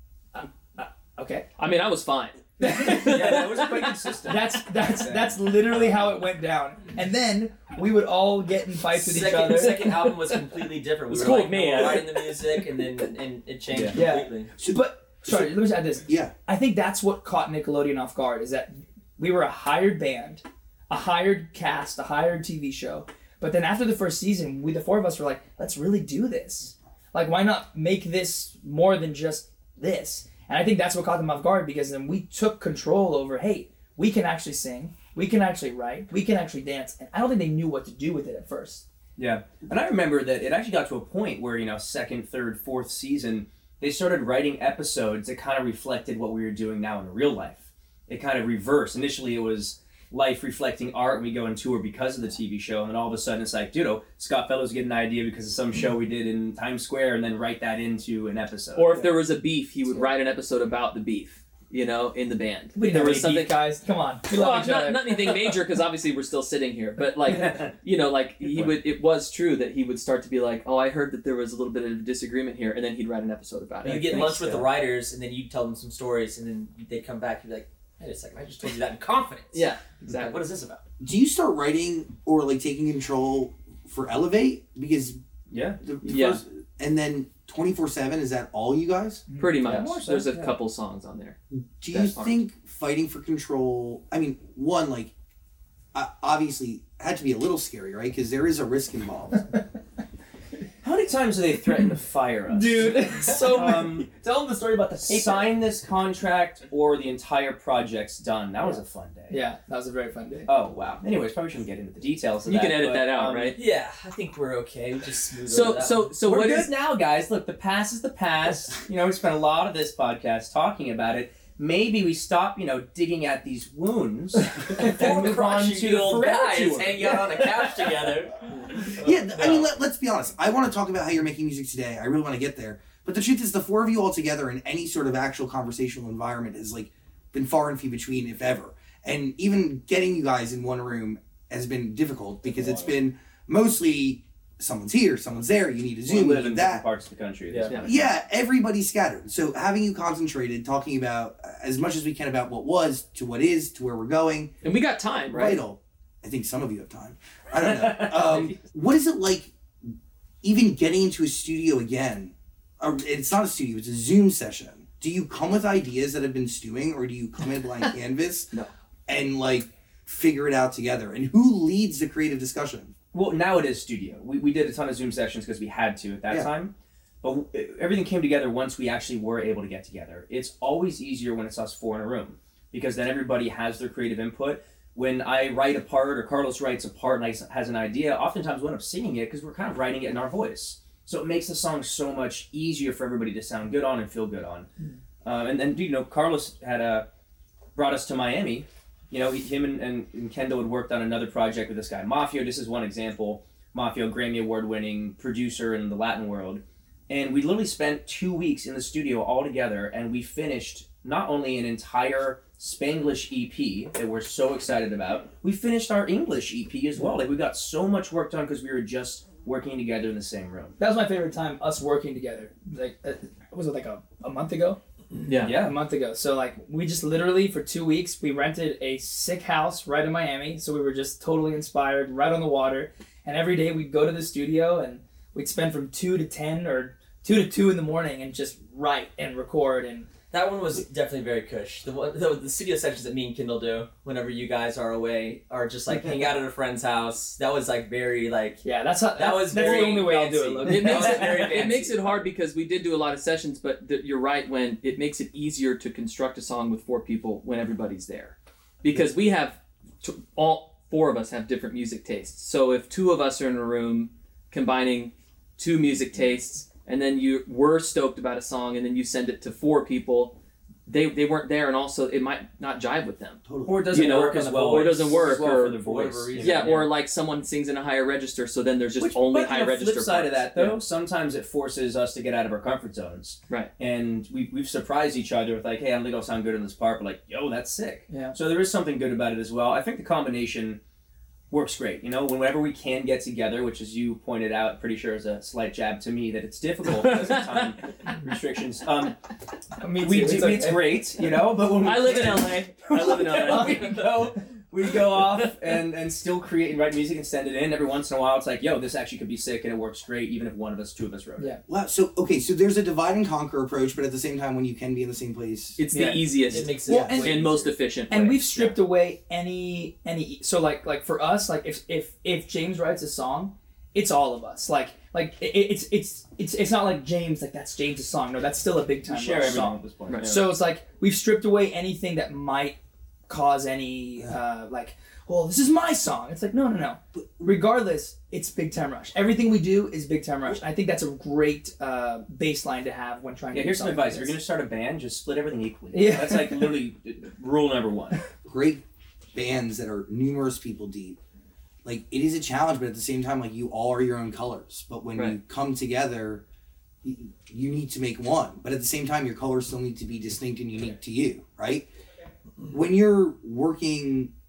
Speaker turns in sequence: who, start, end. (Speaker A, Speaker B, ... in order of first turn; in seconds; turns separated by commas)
Speaker A: 0.3-1.5, Speaker B: 1.6-3.9, Speaker A: 2.6-9.8, Speaker C: 2.6-6.2, Speaker D: 8.9-14.5, Speaker B: 9.3-12.7, Speaker C: 13.7-14.0, Speaker A: 13.9-38.9, Speaker E: 14.6-16.3, Speaker C: 39.2-59.1, Speaker B: 58.8-63.6, Speaker A: 62.8-65.5, Speaker B: 64.3-74.6, Speaker C: 67.3-67.7, Speaker C: 68.4-68.8, Speaker D: 73.8-80.8, Speaker B: 79.5-80.4, Speaker E: 81.0-85.2, Speaker C: 85.5-85.8, Speaker E: 85.8-89.2, Speaker B: 86.0-86.4, Speaker A: 89.3-89.6, Speaker B: 89.4-91.4, Speaker C: 89.6-90.5, Speaker E: 91.5-95.1, Speaker B: 91.9-92.4, Speaker E: 95.9-99.5, Speaker C: 100.8-104.1, Speaker A: 102.5-105.5, Speaker B: 103.3-103.7, Speaker C: 105.0-109.4, Speaker A: 109.3-110.5, Speaker C: 110.5-113.6, Speaker B: 112.5-113.6, Speaker D: 113.5-116.1, Speaker B: 115.5-116.7, Speaker C: 116.2-127.2, Speaker D: 124.7-129.6, Speaker B: 124.8-127.1, Speaker E: 129.0-146.8, Speaker C: 146.1-148.1, Speaker D: 147.5-147.9, Speaker E: 147.9-154.5, Speaker B: 154.6-155.6, Speaker E: 155.3-159.5, Speaker C: 157.6-158.5, Speaker E: 160.4-168.5, Speaker E: 169.1-172.9, Speaker C: 173.1-194.7, Speaker C: 195.2-197.1, Speaker C: 197.8-220.8, Speaker A: 220.8-224.8, Speaker B: 225.3-225.5, Speaker C: 225.4-225.8, Speaker A: 225.5-240.1, Speaker D: 240.3-252.2, Speaker A: 248.6-251.3, Speaker B: 249.5-250.1, Speaker B: 250.6-275.8, Speaker E: 273.5-273.9, Speaker C: 273.6-276.8, Speaker D: 274.1-276.9, Speaker B: 276.4-280.8, Speaker C: 279.0-290.8, Speaker A: 288.1-288.4, Speaker C: 291.5-299.2, Speaker B: 296.9-297.7, Speaker A: 299.8-301.1, Speaker C: 300.0-311.6, Speaker B: 301.8-304.0, Speaker A: 303.3-304.0, Speaker E: 311.7-315.8, Speaker B: 315.8-318.8, Speaker A: 315.9-317.4, Speaker D: 316.5-317.8, Speaker E: 316.9-317.2, Speaker A: 318.1-332.8, Speaker C: 329.1-330.5, Speaker A: 333.3-344.4, Speaker E: 337.1-337.6, Speaker C: 343.5-348.2, Speaker A: 345.9-346.8, Speaker E: 348.4-348.8, Speaker E: 349.3-351.2, Speaker E: 351.8-356.4, Speaker E: 357.0-361.9, Speaker E: 362.7-364.3